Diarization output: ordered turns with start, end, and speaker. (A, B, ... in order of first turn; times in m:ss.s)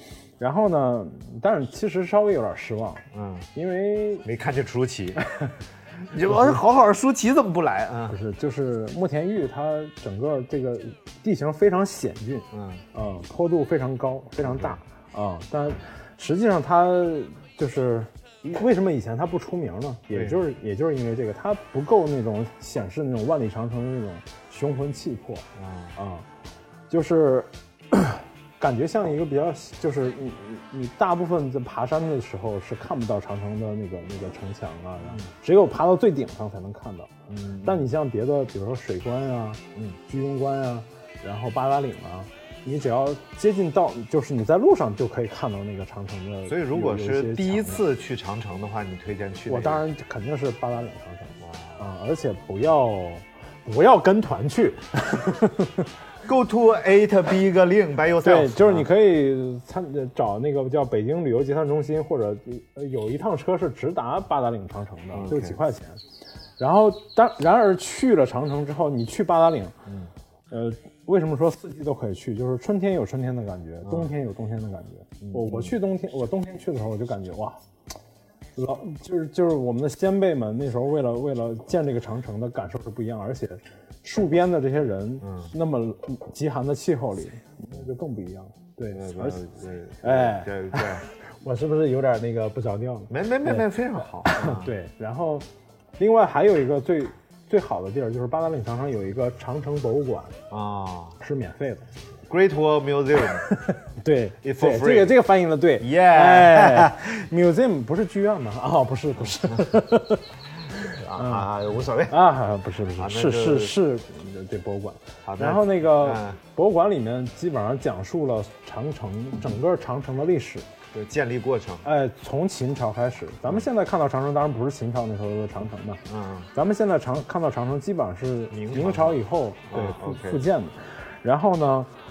0:00.4-0:04.2 A
0:03.1-0:03.5 B
0:04.2-0:05.2 B
0:06.1-0:08.2 B
0:06.3-0:06.6 A
0:08.1-0:25.4 A
0:12.5-0:12.8 B
0:14.4-0:14.8 B
0:20.1-0:20.4 B
0:25.6-0:26.0 B
0:26.0-0:26.2 A
0:26.9-0:37.1 A
0:35.0-0:35.3 B
0:37.3-0:37.8 B
0:37.6-0:47.8 A
0:46.5-0:49.8 B
0:49.5-0:55.9 A
0:51.4-0:51.8 B
0:56.2-0:58.9 B
0:58.2-1:06.0 A
1:05.1-1:05.6 B
1:06.6-1:09.8 A
1:09.8-1:10.1 B
1:10.5-1:17.6 A
1:15.2-1:15.7 B
1:18.6-1:29.4 A
1:25.2-1:25.5 B
1:28.9-1:31.0 B
1:30.0-1:33.6 A
1:33.1-1:34.7 B
1:34.3-1:35.4 A
1:36.0-1:40.4 A
1:40.5-1:41.2 B
1:41.2-1:41.8 A
1:42.3-1:43.5 B
1:43.4-1:51.5 A
1:44.4-1:45.2 B
1:45.8-1:47.1 B
1:49.3-1:49.7 B
1:50.7-1:52.2 B
1:52.1-2:00.7 A
1:53.0-1:53.8 B
1:55.2-1:56.4 B
2:00.9-2:01.8 B
2:01.8-2:06.0 A
2:06.1-2:06.5 B
2:06.5-2:11.9 A
2:08.5-2:09.2 B
2:09.7-2:10.4 B